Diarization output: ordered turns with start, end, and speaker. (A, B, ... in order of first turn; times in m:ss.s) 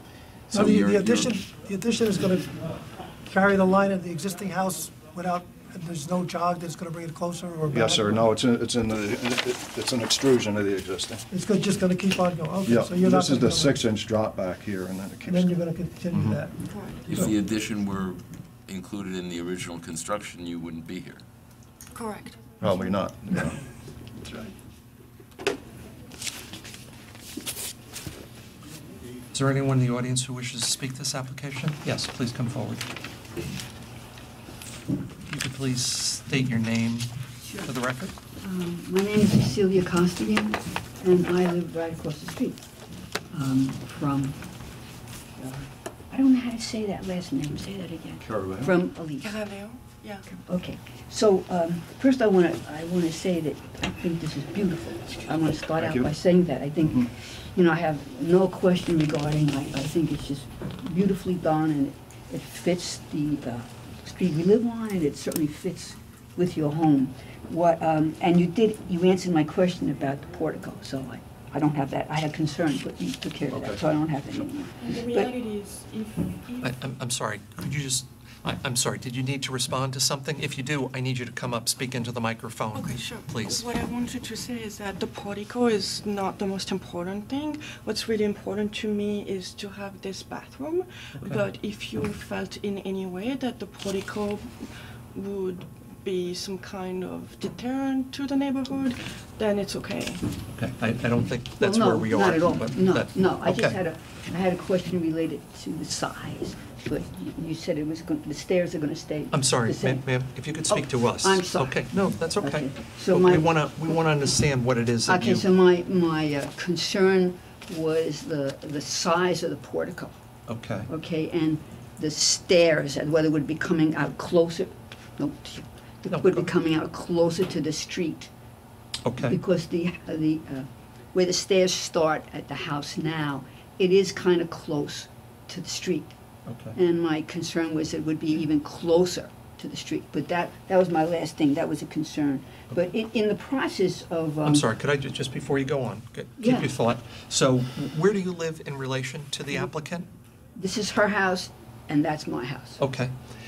0:00.5-0:01.4 A
0:00.5-0:08.3 B
0:07.7-0:11.2 C
0:11.3-0:13.8 B
0:12.6-0:15.5 C
0:15.2-0:17.3 B
0:16.1-0:16.4 C
0:16.7-0:17.1 D
0:17.1-0:21.2 A
0:21.9-0:22.4 D
0:22.6-0:23.6 C
0:29.3-0:32.8 E
0:35.3-0:38.2 E
0:37.4-0:37.7 F
0:38.4-0:42.6 F
0:43.3-0:44.4 F
0:45.4-0:49.4 F
0:48.2-0:48.7 C
0:49.2-0:50.3 D
0:50.3-1:15.3 F
0:55.8-0:56.1 C
1:13.5-1:13.8 C
1:14.8-1:16.7 D
1:16.6-1:23.7 E
1:22.7-1:40.3 D
1:31.1-1:31.4 E
1:40.5-1:43.8 E
1:41.6-1:53.9 F
1:49.3-1:55.4 E
1:55.0-2:00.2 F
2:00.5-2:00.9 E
2:00.9-2:08.3 F
2:06.1-2:06.4 E
2:09.0-2:09.4 E
2:09.2-2:16.1 F
2:16.4-2:16.8 E
2:16.7-2:24.6 F
2:24.4-2:30.1 E
2:26.4-2:26.7 F
2:30.6-2:32.8 F
2:32.8-2:33.1 E